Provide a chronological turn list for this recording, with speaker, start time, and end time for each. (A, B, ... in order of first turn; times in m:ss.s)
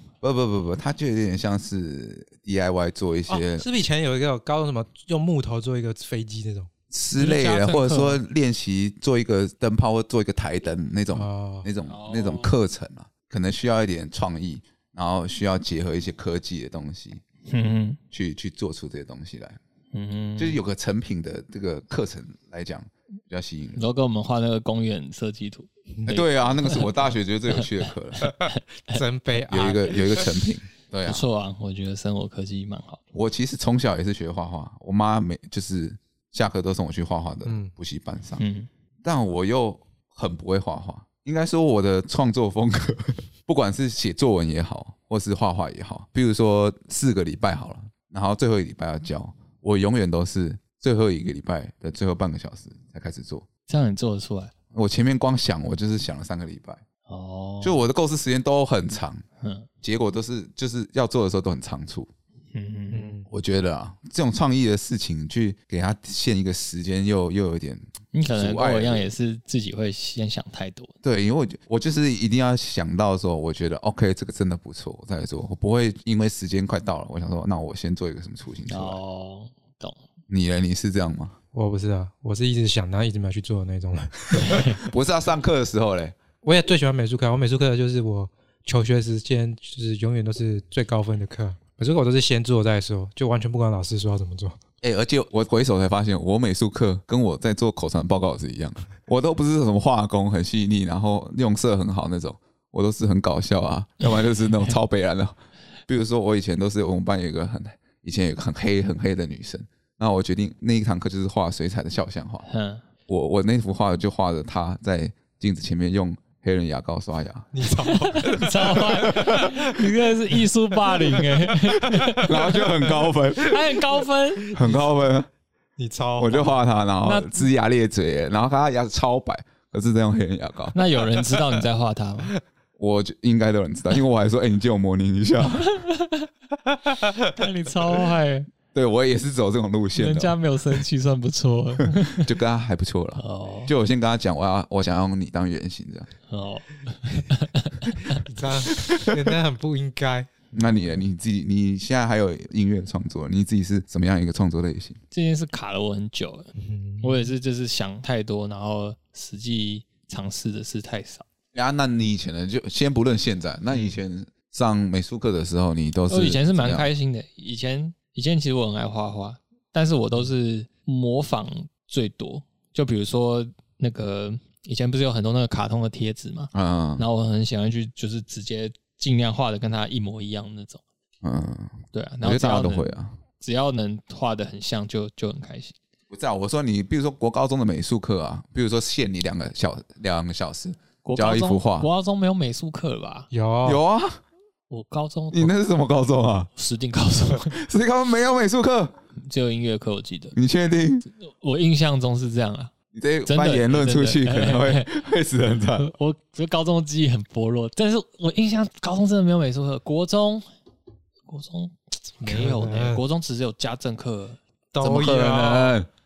0:00.2-0:03.7 A
0:03.3-0:06.7 B
0:06.9-0:17.2 A
0:07.2-0:08.2 C
0:11.1-0:11.7 B
0:11.9-0:12.6 C
0:17.5-0:18.0 C
0:18.1-0:19.6 A
0:19.9-0:20.6 C
0:20.4-0:23.8 A
0:23.8-0:29.0 C
0:26.1-0:28.3 A
0:28.9-0:30.2 B
0:29.5-0:31.3 A
0:31.1-0:33.0 C
0:33.1-0:38.4 A
0:37.4-0:37.7 B
0:38.4-0:38.7 C
0:39.0-0:53.5 A
0:53.7-0:54.5 C
0:54.7-0:56.8 A
0:57.1-0:57.8 C
0:57.6-0:59.2 A
0:59.4-0:59.7 C
0:59.8-1:02.1 A
1:02.5-1:03.2 C
1:02.9-1:03.3 B
1:03.3-1:09.1 A
1:08.1-1:10.9 C
1:11.0-1:19.0 A
1:18.7-1:20.0 C
1:20.3-1:21.4 A
1:21.5-1:24.8 B
1:24.8-1:26.2 A
1:26.4-1:34.6 B
1:34.8-1:45.4 A
1:45.9-1:52.5 A
1:52.5-1:52.8 C
1:53.1-1:57.5 A
1:57.5-1:59.8 B
1:58.0-2:02.8 C
1:59.0-1:59.4 A
2:02.2-2:03.8 A
2:03.4-2:04.6 C
2:04.5-2:05.3 A
2:05.8-2:06.6 B
2:06.2-2:10.8 A
2:07.0-2:07.4 C
2:10.7-2:12.3 C
2:12.8-2:15.7 A
2:15.5-2:16.3 C
2:17.2-2:18.5 C
2:18.7-2:20.4 A
2:20.0-2:22.3 C
2:21.9-2:26.1 A
2:23.2-2:23.7 C
2:26.3-2:28.2 C
2:28.2-2:30.3 B
2:30.5-2:35.0 A
2:35.1-2:36.5 C
2:36.6-2:37.3 B
2:37.0-2:41.3 C
2:41.5-2:46.9 A
2:46.1-3:00.8 C
2:56.5-2:57.1 A
3:01.2-3:03.2 A
3:01.9-3:05.8 C
3:06.1-3:11.9 A
3:11.0-3:13.3 C
3:13.3-3:13.8 B
3:13.6-3:14.2 A
3:14.7-3:15.6 C
3:15.3-3:16.5 A
3:16.6-3:17.6 C
3:17.4-3:19.0 A
3:19.2-3:20.4 C
3:20.4-3:21.1 A
3:21.2-3:22.7 C
3:22.9-3:25.9 A
3:23.3-3:25.0 C
3:25.8-3:30.4 C
3:31.3-3:34.4 C
3:32.2-3:33.0 B
3:34.7-3:35.8 B
3:34.8-3:35.9 A